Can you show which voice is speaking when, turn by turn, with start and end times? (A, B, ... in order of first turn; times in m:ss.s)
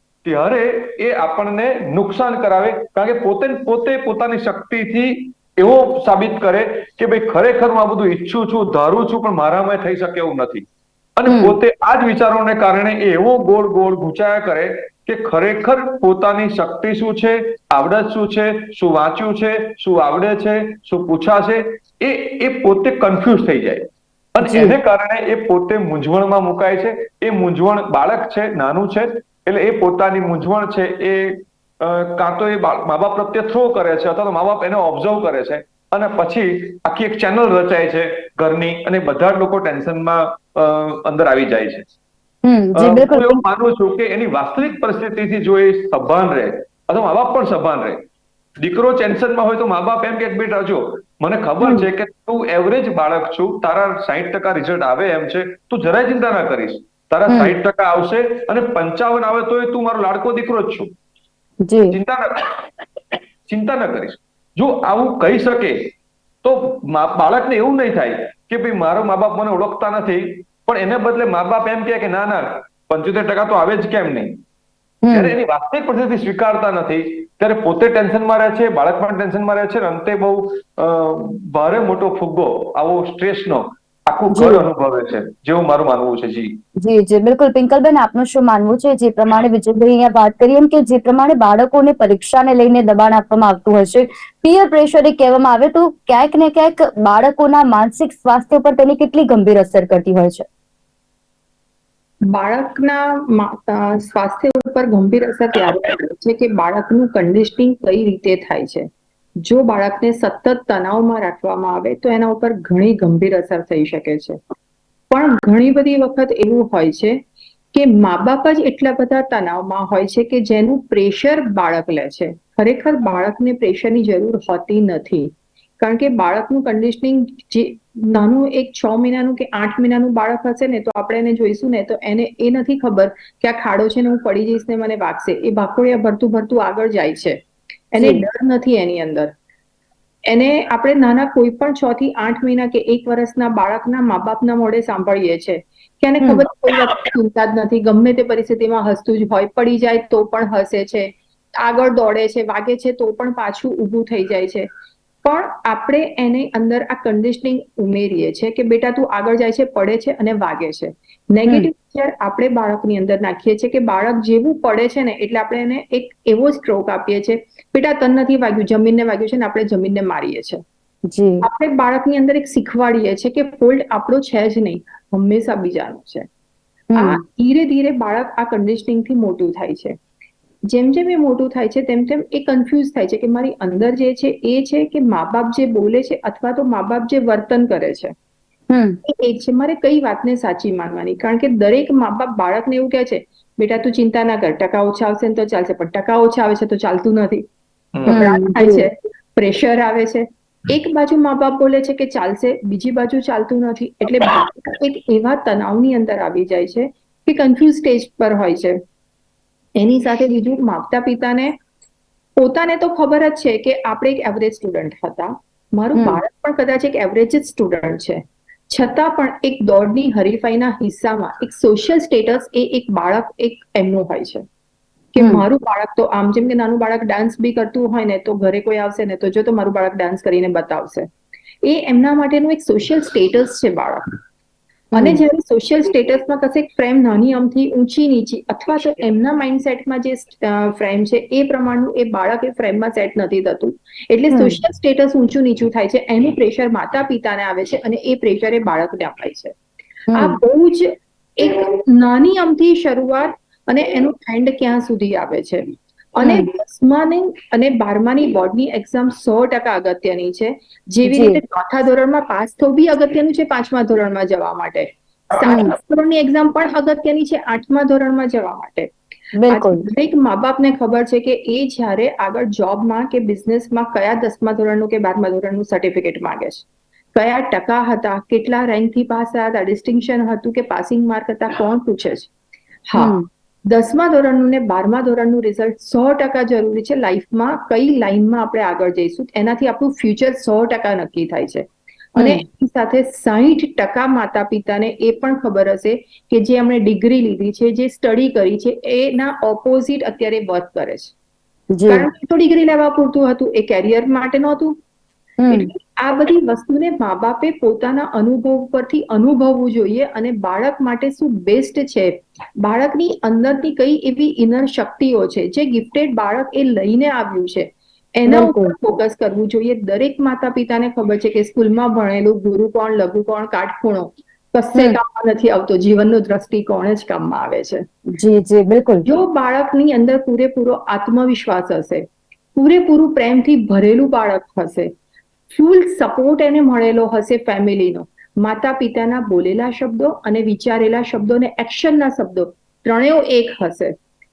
0:00.2-0:10.7 A
0:11.2-0:41.9 A
0:11.3-0:11.6 B
0:24.4-0:24.8 B
0:42.4-0:43.4 B
0:42.8-0:48.0 A
0:48.6-1:00.9 A
0:57.3-0:57.6 B
1:01.7-1:02.0 B
1:01.9-1:14.4 A
1:15.0-1:15.3 B
1:15.1-1:26.6 A
1:24.3-1:24.6 B
1:26.8-1:40.5 B
1:42.3-1:48.9 C
1:49.4-1:54.4 C
1:55.1-1:57.2 C
1:57.7-2:17.4 C
2:17.9-2:19.3 C
2:20.3-2:34.7 C
2:35.2-2:50.6 C
2:51.1-2:51.4 B
2:51.4-2:56.3 C
2:56.9-2:57.2 B
2:57.0-3:00.0 C
3:00.7-3:08.1 C
3:08.7-3:09.0 B
3:09.0-3:17.4 C
3:18.0-3:18.2 A
3:18.1-3:18.9 B
3:18.1-3:28.8 C
3:29.8-3:31.6 C
3:32.4-3:44.4 C
3:45.2-3:51.1 C
3:45.2-3:45.4 B
3:51.6-3:54.1 C
3:55.0-4:09.5 C
4:04.3-4:04.6 B
4:10.1-4:10.4 B
4:10.2-4:15.6 C
4:16.2-4:28.9 C
4:16.2-4:16.5 B
4:21.1-4:21.4 B
4:25.4-4:25.7 B
4:29.4-4:29.9 B
4:29.5-4:42.3 C
4:42.9-4:43.2 C
4:43.0-4:43.3 B
4:43.7-5:01.1 C
4:52.2-4:52.4 B
5:01.7-5:02.1 B
5:01.9-5:04.8 C
5:05.4-5:05.7 B
5:05.5-5:27.8 C
5:18.3-5:18.7 B
5:28.1-5:29.0 B
5:29.0-5:34.9 C
5:35.5-5:44.0 C